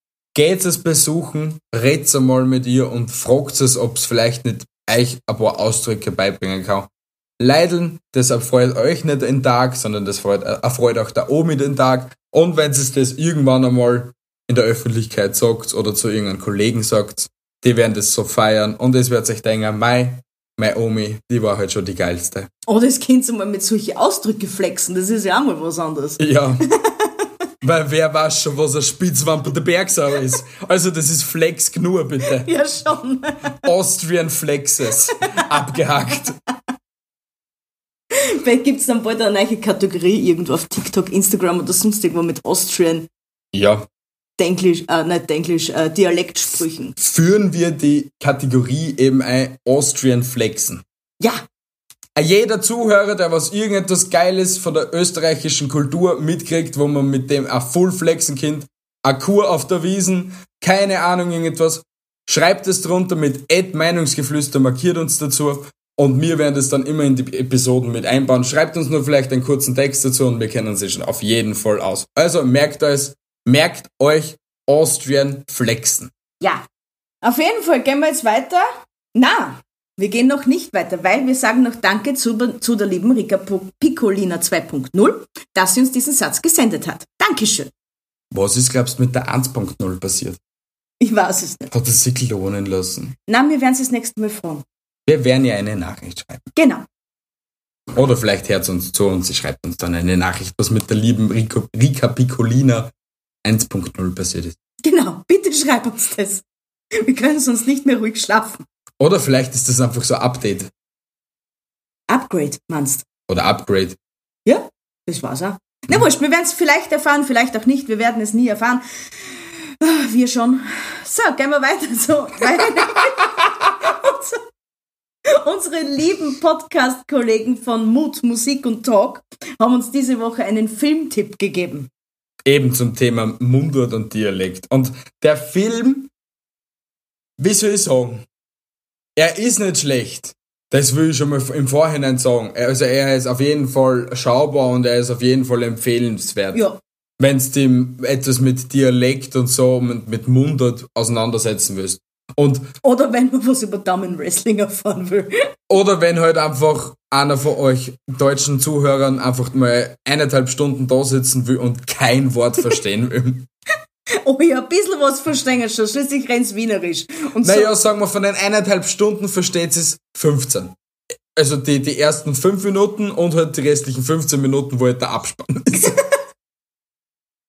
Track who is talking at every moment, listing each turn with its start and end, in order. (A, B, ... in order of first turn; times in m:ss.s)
0:00.3-0:22.5 A
0:22.7-0:27.3 B
0:26.2-0:26.6 A
0:27.6-0:32.5 A
0:32.4-0:33.6 B
0:33.6-0:36.4 A
0:35.1-0:35.4 B
0:38.1-0:43.1 B
0:43.5-0:43.9 A
0:44.4-0:46.9 B
0:47.0-0:50.8 A
0:52.2-1:16.1 A
1:17.2-1:27.7 B
1:28.3-1:30.4 A
1:31.0-1:31.7 B
1:31.7-1:33.1 A
1:33.3-1:34.6 B
1:35.1-1:36.5 A
1:36.6-1:36.8 B
1:37.9-1:42.9 A
1:43.4-1:44.6 A
1:44.8-1:48.6 B
1:49.0-1:50.7 A
1:52.1-1:53.0 B
1:53.3-1:54.0 A
1:54.4-1:58.8 B
1:59.8-2:04.4 B
2:05.3-2:11.9 B
2:12.4-2:16.1 A
2:17.4-2:18.2 A
2:19.2-2:26.6 A
2:26.5-2:26.8 B
2:27.2-2:32.7 A
2:32.8-2:35.5 B
2:35.7-2:43.5 A
2:44.2-2:47.7 B
2:47.4-2:50.7 A
2:51.4-2:55.9 A